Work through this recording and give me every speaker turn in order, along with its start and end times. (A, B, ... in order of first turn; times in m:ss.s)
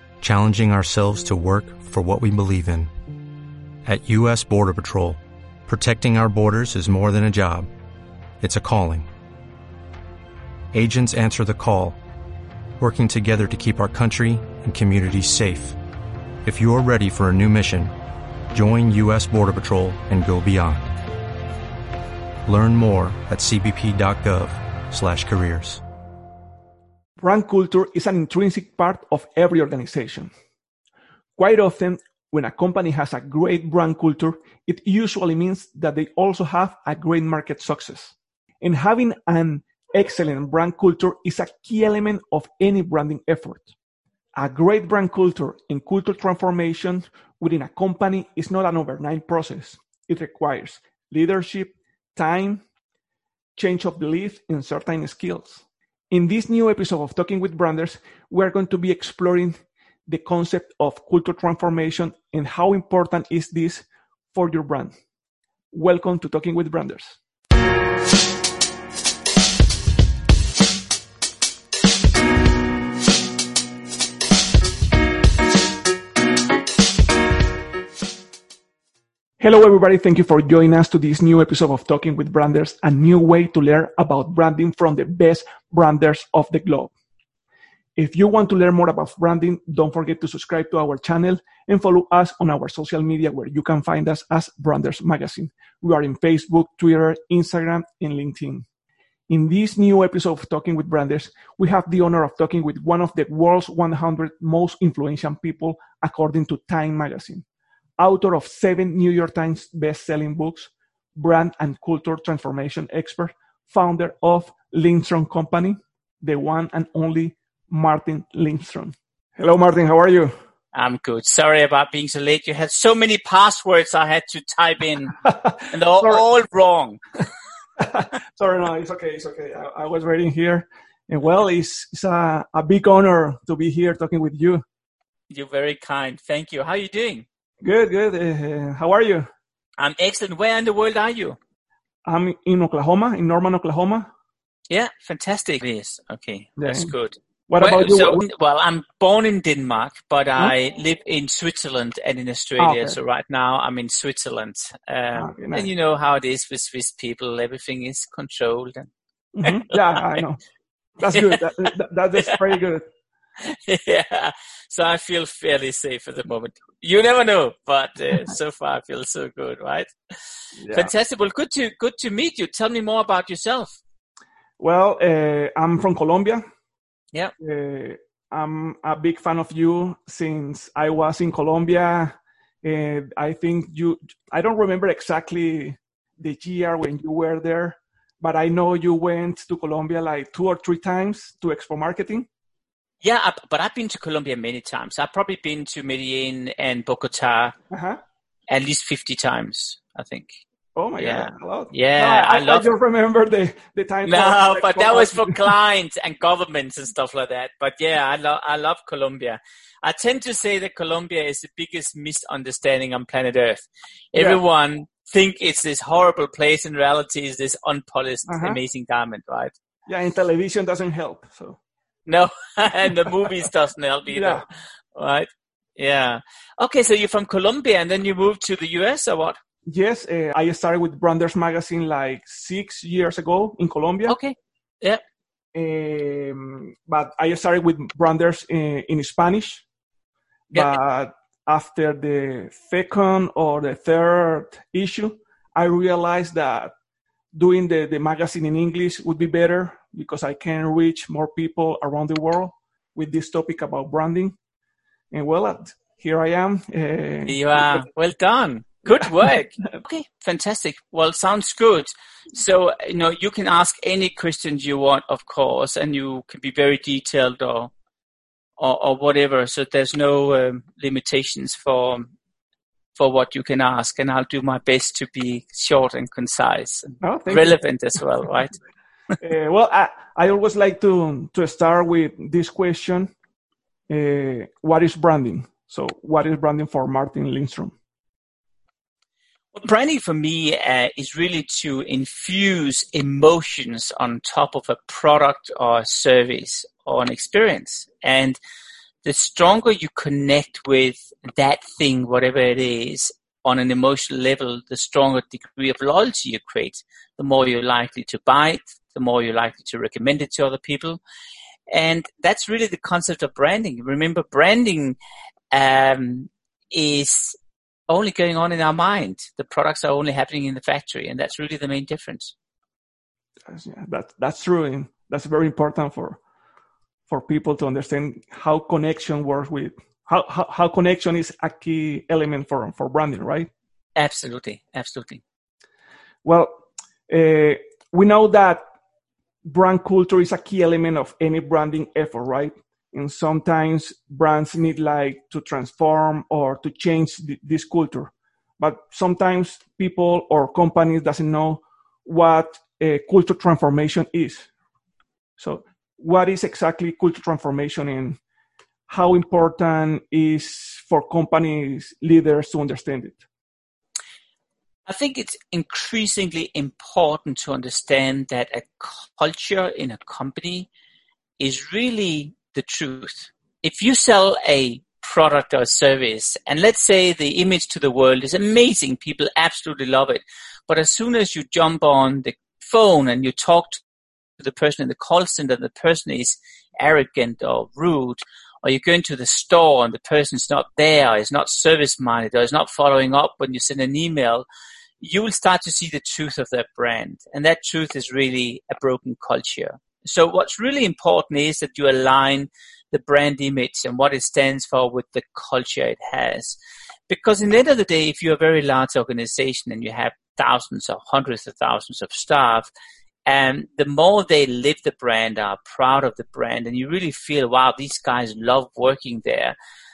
0:00.2-0:02.9 A
0:03.8-0:07.7 A
0:08.4-0:09.1 A
0:10.7-0:12.0 A
0:12.8-0:15.8 A
0:16.4-0:17.9 A
0:18.5-0:20.9 A
0:22.4-0:25.8 A
0:27.2-0:30.3 B
0:31.4-0:43.7 B
0:44.4-0:52.6 B
0:53.6-1:05.0 B
1:05.7-1:07.2 B
1:19.4-1:26.9 B
1:28.0-1:38.6 B
1:39.3-1:47.4 B
1:48.0-2:00.3 B
2:00.7-2:07.0 C
2:05.2-2:06.2 B
2:07.8-2:14.6 B
2:15.3-2:17.2 C
2:17.6-2:19.3 B
2:19.8-2:21.4 C
2:22.0-2:24.1 B
2:24.7-2:38.9 C
2:26.6-2:26.9 B
2:27.5-2:28.2 B
2:32.6-2:33.0 B
2:35.2-2:35.7 B
2:39.3-2:40.4 B
2:41.0-2:42.8 B
2:41.1-2:41.4 C
2:43.4-2:49.9 C
2:50.6-2:50.9 B
2:50.7-2:53.8 C
2:54.6-2:56.4 B
2:57.4-3:12.3 B
3:13.0-3:17.5 C
3:17.7-3:18.0 B
3:18.5-3:20.4 C
3:20.8-3:25.5 B
3:21.0-3:22.7 C
3:24.0-3:39.5 C
3:34.1-3:34.4 B
3:38.3-3:38.6 B
3:39.9-3:41.6 B
3:42.0-3:49.4 C
3:43.0-3:43.5 B
3:44.1-3:44.4 B
3:49.7-3:54.2 B
3:54.1-3:55.0 C
3:55.5-3:59.6 B
4:00.5-4:06.7 B
4:07.3-4:14.4 B
4:15.1-4:17.8 B
4:17.3-4:27.7 C
4:28.6-4:32.1 C
4:33.0-4:38.6 C
4:37.0-4:37.6 B
4:39.2-4:43.1 B
4:43.9-4:47.8 B
4:49.5-4:58.4 C
4:59.0-5:11.0 C
5:11.7-5:15.0 C
5:15.5-5:17.4 C
5:17.9-5:22.3 C
5:23.4-5:26.2 B
5:27.1-5:33.5 B
5:34.0-5:35.2 C
5:36.2-5:38.7 B
5:39.4-5:54.5 B
5:55.4-5:58.2 B
5:58.9-6:03.2 B
6:04.9-6:10.7 C
6:11.4-6:23.8 C
6:24.4-6:34.5 C
6:35.0-6:46.6 C
6:47.1-6:52.7 C
6:53.2-6:59.6 C